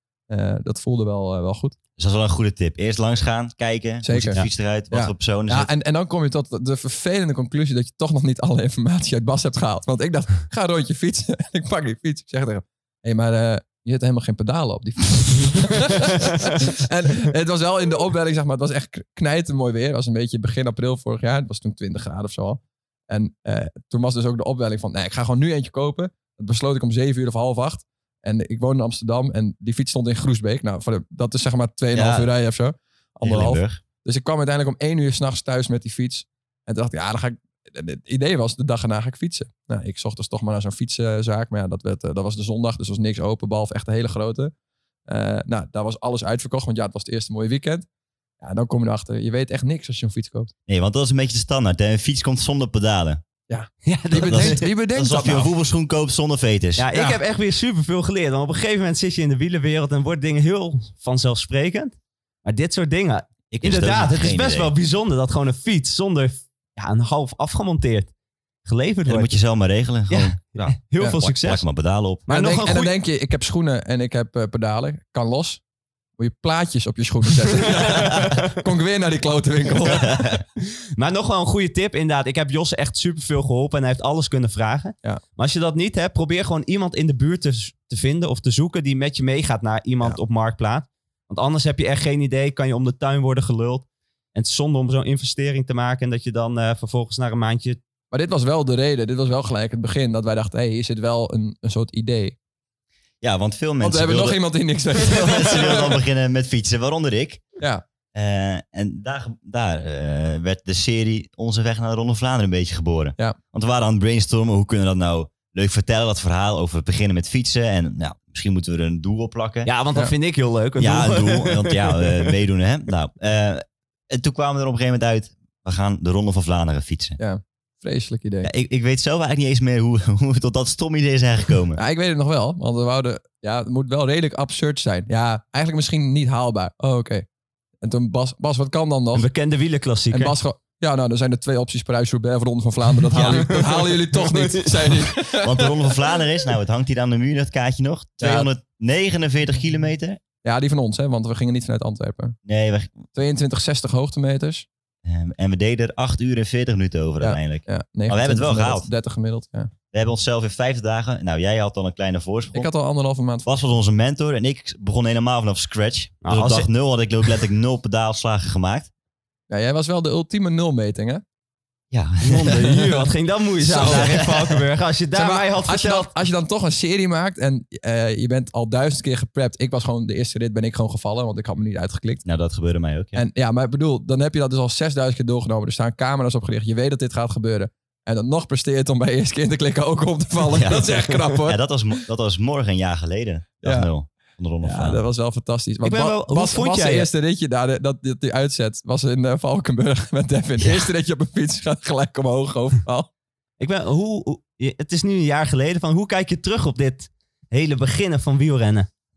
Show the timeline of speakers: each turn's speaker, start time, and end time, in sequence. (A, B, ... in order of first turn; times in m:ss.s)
0:00.3-0:01.8 A
0:02.0-0:05.7 B
0:04.0-0:44.5 A
0:31.9-0:32.3 B
0:33.2-0:33.8 B
0:45.1-0:47.9 A
0:48.4-0:50.5 A
0:50.7-0:53.2 B
0:53.5-0:55.5 A
0:53.8-0:54.7 C
0:54.1-0:56.9 B
0:56.8-1:08.1 C
0:56.9-0:57.2 A
1:03.5-1:04.7 B
1:08.6-1:09.3 C
1:09.1-1:12.3 B
1:10.1-1:11.6 C
1:12.3-1:12.9 C
1:12.3-1:15.6 A
1:16.2-1:20.3 A
1:18.2-1:18.5 C
1:19.9-1:20.4 B
1:21.0-1:37.8 C
1:38.1-1:42.4 A
1:43.2-1:44.4 B
1:43.8-1:46.0 A
1:45.0-1:47.4 B
1:48.2-1:59.7 B
1:59.7-2:02.3 C
2:00.8-2:07.2 B
2:07.2-2:08.5 A
2:08.4-2:11.8 B
2:11.8-2:17.3 A
2:17.8-2:19.3 A
2:19.1-2:20.3 C
2:20.1-2:26.0 A
2:23.1-2:23.6 B
2:23.2-2:25.0 C
2:25.2-2:30.2 B
2:28.2-2:28.5 A
2:30.4-2:32.4 A
2:32.5-2:33.0 B
2:33.1-2:34.7 A
2:35.0-2:38.9 B
2:37.2-2:39.7 A
2:39.9-2:42.7 B
2:42.5-2:43.5 A
2:43.5-2:48.9 B
2:46.2-2:46.7 C
2:49.5-2:51.2 A
2:51.9-2:52.6 B
2:52.2-2:56.1 C
2:53.7-2:54.3 A
2:53.7-2:54.4 B
2:55.1-3:02.2 A
3:02.2-3:03.2 B
3:03.2-3:11.6 A
3:10.5-3:15.0 B
3:13.6-3:13.9 A
3:14.6-3:23.1 A
3:15.8-3:17.1 C
3:23.6-3:28.9 C